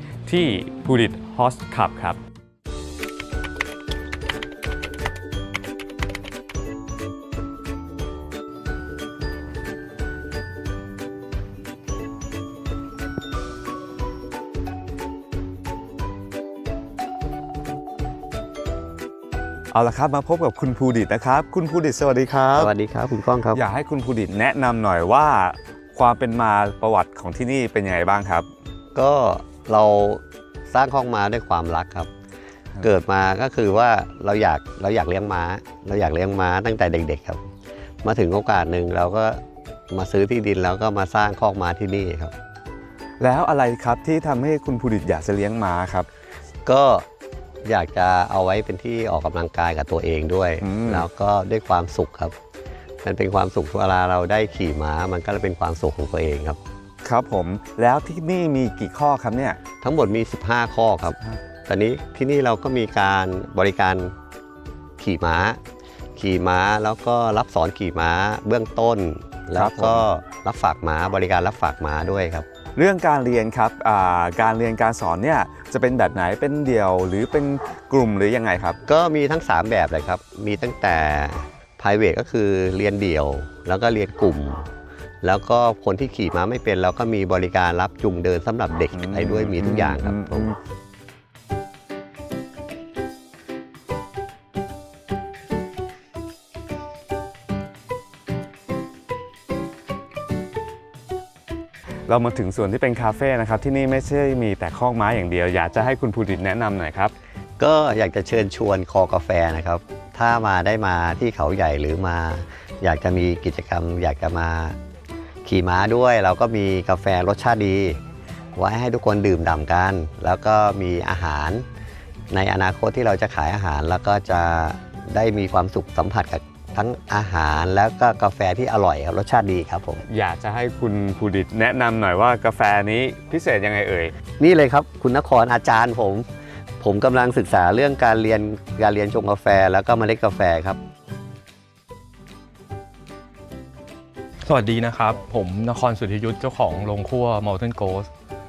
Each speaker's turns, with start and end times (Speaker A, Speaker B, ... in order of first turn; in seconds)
Speaker A: 0.2-2.2, 19.7-22.7, 23.5-28.5, 43.2-46.1, 50.6-51.1, 57.0-59.6, 69.5-70.0, 72.8-78.8, 88.9-90.5, 102.1-107.1, 130.1-134.1
Speaker B: 22.6-23.6, 28.9-32.1, 32.8-37.4, 38.0-42.3, 46.6-47.0, 47.6-52.3, 53.0-56.6, 59.8-64.1, 65.0-65.6, 66.2-72.5, 78.9-84.7, 85.2-90.5, 107.6-114.8, 115.4-118.0, 118.5-121.6, 122.3-130.0, 134.4-136.2, 136.8-140.8
Speaker C: 144.4-148.1